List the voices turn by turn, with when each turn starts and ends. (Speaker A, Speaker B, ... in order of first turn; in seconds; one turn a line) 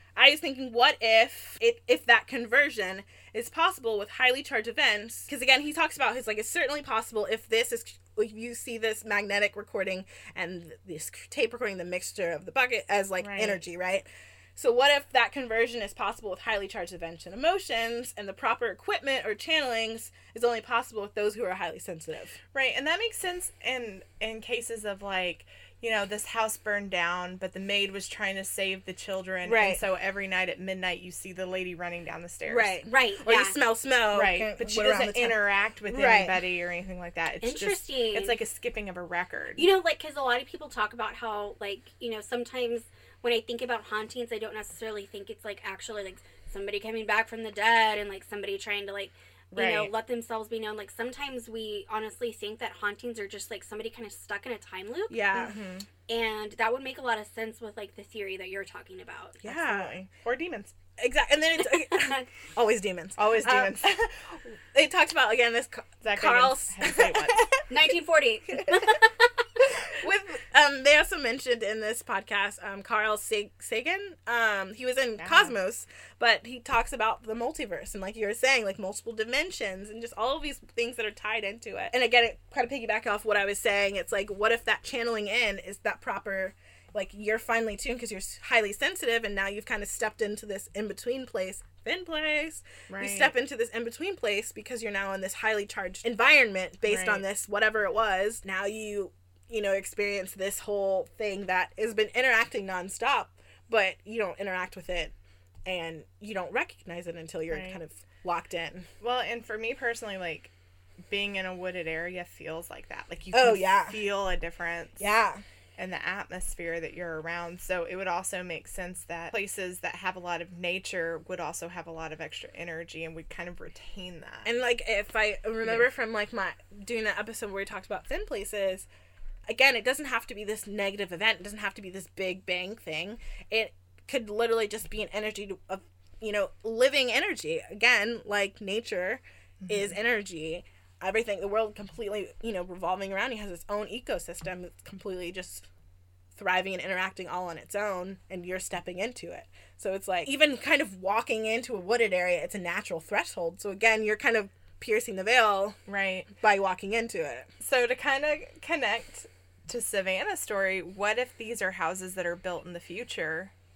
Speaker A: 0.2-22.4
Speaker B: 13.2-13.6
Speaker B: 22.5-32.8
Speaker A: 29.4-29.8
Speaker A: 32.5-36.3
Speaker C: 32.9-33.6
Speaker B: 34.1-39.7
Speaker C: 37.4-38.4
Speaker C: 39.6-55.4
Speaker B: 49.5-49.9
Speaker A: 55.1-55.6
Speaker B: 55.4-55.9
Speaker C: 56.1-59.4
Speaker A: 59.4-60.0
Speaker B: 59.5-60.8
Speaker A: 61.0-67.7
Speaker C: 61.9-62.2
Speaker B: 63.2-63.9
Speaker B: 66.0-67.6
Speaker C: 67.7-69.3
Speaker A: 68.5-68.8
Speaker A: 69.8-105.1
Speaker B: 75.2-75.5
Speaker B: 92.9-93.3
Speaker B: 96.8-97.2
Speaker A: 105.7-108.9
Speaker B: 107.5-107.8
Speaker B: 109.0-110.5
Speaker B: 111.1-115.1
Speaker A: 113.3-114.0
Speaker A: 115.0-115.4
Speaker B: 115.8-124.5
Speaker A: 124.5-128.9
Speaker A: 129.5-145.7
Speaker B: 139.6-139.9
Speaker A: 146.3-155.8
Speaker B: 155.9-156.3
Speaker A: 156.4-157.5
Speaker B: 157.6-163.5